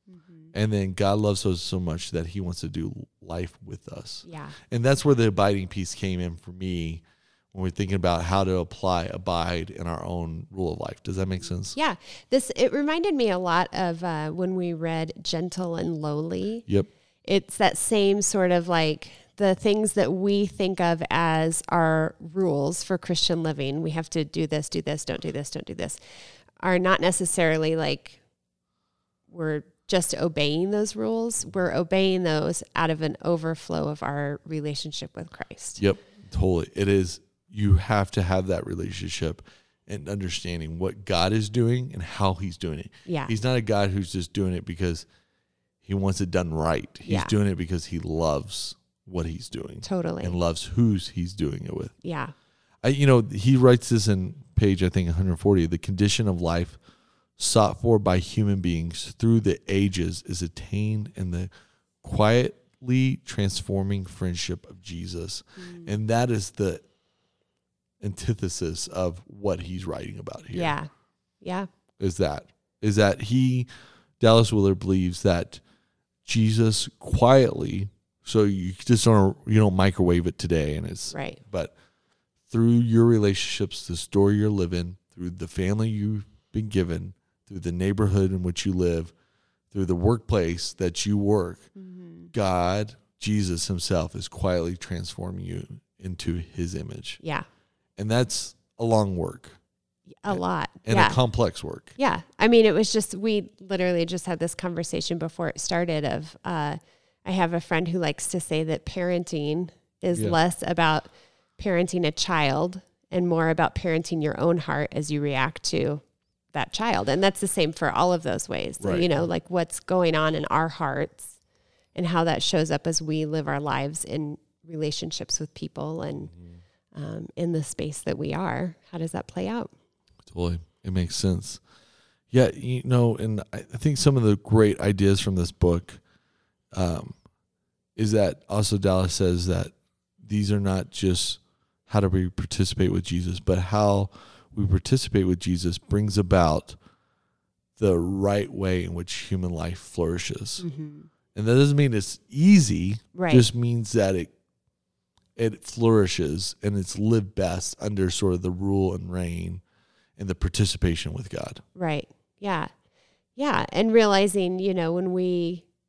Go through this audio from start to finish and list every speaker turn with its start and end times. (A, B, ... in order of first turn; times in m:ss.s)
0:00.2-0:00.5 A
0:00.5-0:11.8 B
0:04.2-0:04.6 A
0:11.7-0:16.6 A
0:17.2-0:26.0 A
0:26.6-0:28.2 A
0:29.3-0:35.8 A
0:35.8-0:45.0 B
0:43.0-0:43.3 A
0:45.8-0:51.9 B
0:47.0-0:47.3 A
0:49.8-0:50.4 A
0:52.0-0:52.3 A
0:52.8-0:56.8 B
0:57.4-1:01.5 B
1:02.0-1:06.8 B
1:05.6-1:05.9 A
1:08.0-1:10.7 B
1:10.5-1:10.9 A
1:11.4-1:11.7 A
1:12.0-1:13.7 B
1:14.2-1:15.6 B
1:16.2-1:21.7 B
1:21.1-1:21.4 A
1:22.5-1:29.1 B
1:29.7-1:31.7 B
1:31.8-1:32.3 A
1:32.3-1:37.2 B
1:38.0-1:39.6 B
1:40.2-1:41.2 A
1:40.3-1:42.0 B
1:42.0-1:56.0 A
1:56.5-2:01.3 A
1:58.8-1:59.2 B
2:01.9-2:06.3 A
2:06.9-2:09.7 A
2:10.2-2:11.6 B
2:12.3-2:16.0 B
2:16.7-2:17.1 B
2:18.0-2:26.8 B
2:27.8-2:30.6 B
2:30.6-2:31.1 A
2:31.3-2:34.3 B
2:33.1-2:33.4 A
2:35.4-2:39.6 B
2:40.2-2:41.6 B
2:41.7-2:42.7 A
2:43.4-2:45.6 A